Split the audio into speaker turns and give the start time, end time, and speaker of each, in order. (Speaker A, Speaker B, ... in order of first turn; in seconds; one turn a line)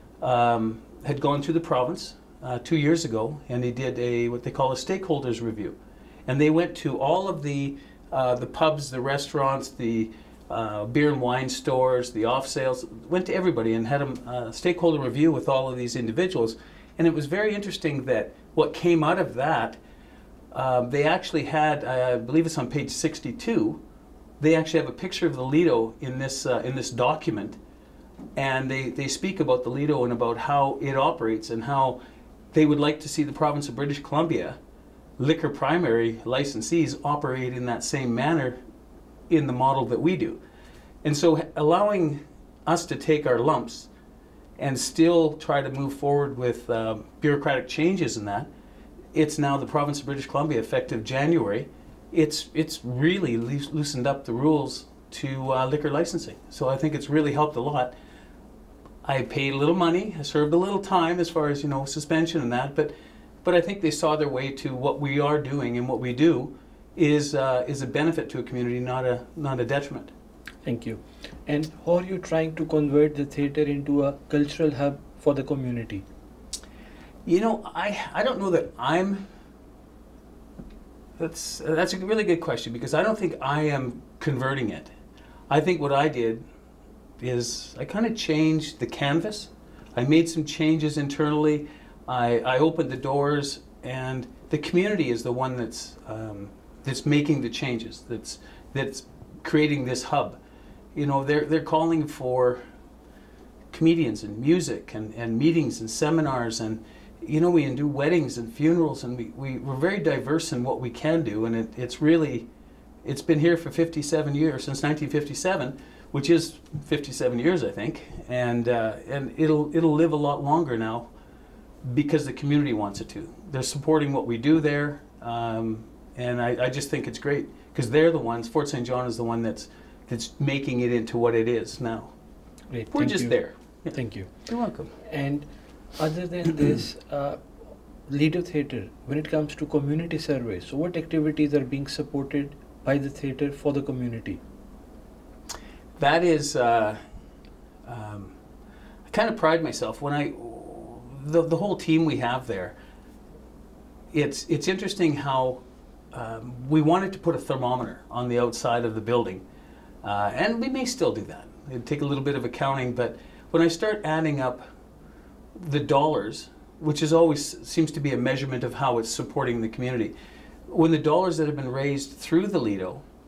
Speaker A: 0.2-5.8
Speaker A: 6.3-19.8
Speaker A: 20.5-23.8
Speaker A: 24.4-27.6
Speaker A: 28.4-32.0
Speaker A: 32.5-34.6
Speaker A: 35.2-38.6
Speaker A: 39.3-40.4
Speaker A: 41.0-43.9
Speaker A: 44.6-48.5
Speaker A: 49.1-57.9
Speaker A: 59.0-62.9
Speaker A: 63.4-70.1
Speaker B: 70.6-76.0
Speaker A: 77.2-79.2
Speaker A: 81.2-84.9
Speaker A: 85.5-86.4
Speaker A: 87.2-100.4
Speaker A: 101.0-102.6
Speaker A: 103.7-112.5
Speaker A: 113.0-121.1
Speaker A: 121.9-132.1
Speaker B: 132.7-133.4
Speaker A: 132.9-134.9
Speaker B: 133.9-134.3
Speaker B: 135.0-135.4
Speaker B: 136.0-137.4
Speaker B: 138.1-144.4
Speaker A: 146.0-147.0
Speaker A: 147.9-148.3
Speaker A: 149.1-152.8
Speaker A: 154.1-155.6
Speaker A: 156.1-159.4
Speaker A: 160.0-164.6
Speaker A: 165.6-170.1
Speaker A: 170.7-173.0